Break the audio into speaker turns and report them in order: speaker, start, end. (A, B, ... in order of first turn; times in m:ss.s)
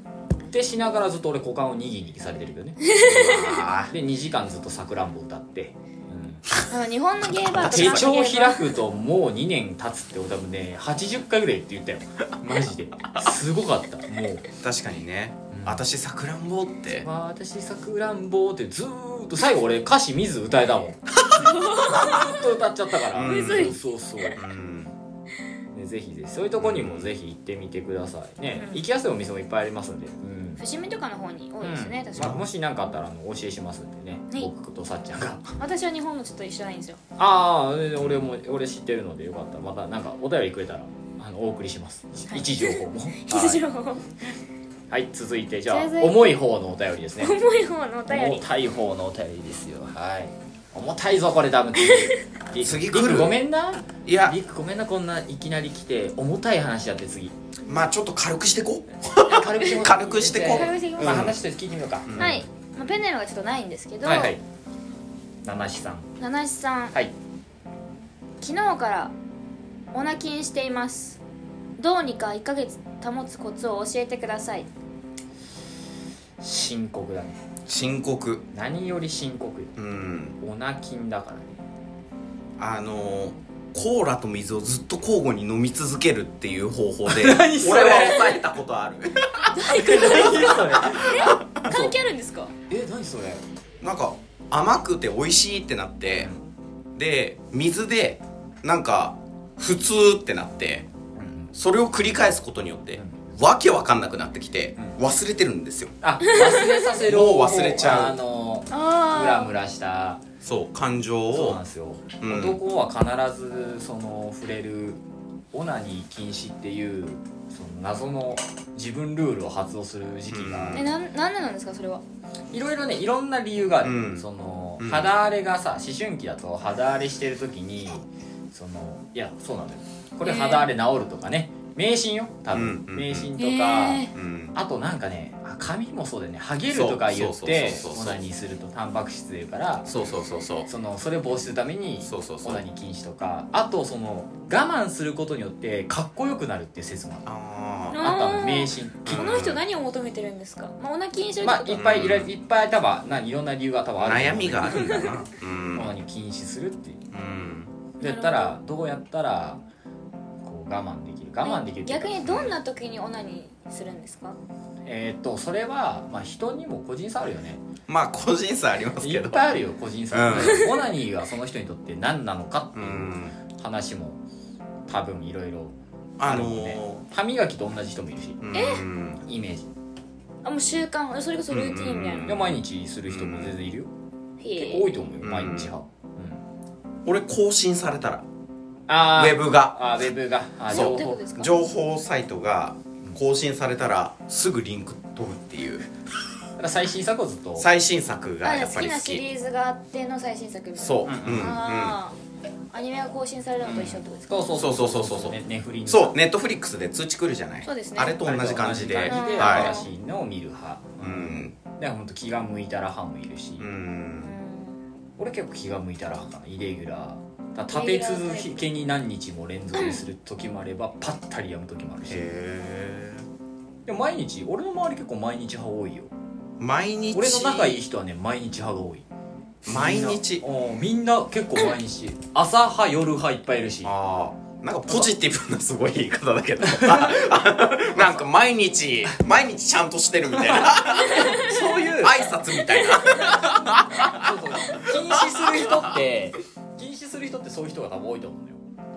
0:00.5-0:02.8 A
0:02.9-0:03.7 B
0:03.0-0:03.9 C
0:03.9-0:06.4 A
0:06.7-0:08.8 B
0:07.2-0:08.1 C
0:07.6-0:14.5 A
0:14.6-0:17.1 C
0:15.5-0:15.8 A
0:17.0-0:24.4 A
0:21.3-0:22.3 C
0:21.5-0:22.3 B
0:23.1-0:23.8 C
0:23.2-0:23.8 B
0:24.4-0:24.9 C
0:25.7-0:30.6 A
0:26.6-0:27.1 C
0:28.6-0:28.8 B
0:30.6-0:32.4 B
0:31.6-0:35.5 A
0:32.2-0:32.4 C
0:35.6-0:37.0 B
0:37.2-0:43.6 A
0:42.3-0:44.0 B
0:44.9-0:47.4 A
0:45.7-0:46.4 B
0:47.2-0:48.4 B
0:48.1-0:57.3 A
0:52.6-0:53.4 C
0:54.0-0:54.4 C
0:57.7-1:01.4 C
0:59.2-1:02.4 A
1:00.4-1:01.3 B
1:02.1-1:02.4 C
1:02.2-1:04.3 B
1:04.0-1:04.4 A
1:05.4-1:06.1 A
1:06.2-1:07.0 B
1:08.4-1:09.1 B
1:09.9-1:11.2 B
1:11.8-1:14.7 B
1:16.4-1:17.4 A
1:17.7-1:18.5 C
1:18.5-1:19.8 A
1:19.8-1:20.4 C
1:20.4-1:21.6 A
1:22.6-1:31.7 C
1:27.1-1:28.4 A
1:29.5-1:32.5 B
1:29.7-1:31.9 A
1:32.7-1:33.4 A
1:33.8-1:36.3 C
1:37.0-1:40.9 C
1:41.2-1:41.5 A
1:41.5-1:46.0 C
1:43.0-1:43.4 A
1:46.0-1:50.2 A
1:46.3-1:46.9 B
1:47.0-1:48.2 C
1:48.7-1:49.5 B
1:50.4-1:51.6 C
1:51.3-1:55.0 A
1:52.2-1:52.6 C
1:55.5-2:00.9 A
2:00.3-2:00.9 C
2:00.7-2:02.0 B
2:02.5-2:19.9 A
2:03.8-2:04.3 C
2:04.8-2:05.1 C
2:10.2-2:10.7 B
2:12.5-2:13.3 C
2:13.4-2:14.1 B
2:14.1-2:14.5 C
2:16.7-2:18.2 C
2:19.9-2:20.7 C
2:20.7-2:27.3 A
2:22.0-2:22.6 C
2:27.2-2:28.0 C
2:27.9-2:32.0 B
2:28.0-2:29.4 A
2:29.0-2:29.6 C
2:31.4-2:35.1 A
2:31.7-2:32.3 C
2:34.0-2:35.9 C
2:34.8-2:35.1 B
2:35.7-2:37.0 A
2:37.1-2:37.7 C
2:38.0-2:38.6 B
2:38.0-2:39.6 A
2:40.4-2:42.5 A
2:41.4-2:44.4 B
2:42.2-2:42.6 C
2:44.9-2:47.6 A
2:47.9-2:49.6 C
2:49.0-2:54.2 A
2:50.1-2:50.7 C
2:52.8-2:53.4 C
2:54.9-2:58.5 A
2:56.2-2:57.0 C
2:58.4-2:59.2 C
2:58.5-2:58.8 B
2:59.3-2:59.7 A
3:00.4-3:02.4 B
3:01.5-3:03.6 C
3:02.2-3:03.9 A
3:04.4-3:04.9 B
3:04.6-3:06.4 A
3:05.2-3:05.7 C
3:07.0-3:08.3 C
3:08.9-3:11.2 A
3:09.1-3:10.0 C
3:10.7-3:11.6 B
3:10.7-3:15.9 C
3:16.6-3:17.7 A
3:17.6-3:19.2 C
3:18.4-3:22.2 B
3:20.8-3:22.0 C
3:21.0-3:21.6 A
3:22.7-3:24.3 B
3:23.6-3:26.2 A
3:24.5-3:29.8 C
3:27.6-3:28.3 B
3:28.2-3:33.7 A
3:29.1-3:29.9 B
3:31.0-3:31.6 C
3:33.6-3:34.4 C
3:34.2-3:34.8 B
3:35.2-3:42.3 A
3:37.7-3:38.7 B
3:39.8-3:40.0 B
3:42.1-3:43.2 C
3:43.9-3:46.1 A
3:46.6-3:47.8 C
3:47.1-3:49.1 A
3:49.6-3:50.4 C
3:49.7-3:53.9 A
3:53.8-4:06.0 C
3:56.6-3:57.3 A
3:57.9-3:58.2 A
4:00.4-4:02.4 A
4:01.1-4:01.6 B
4:04.0-4:08.6 A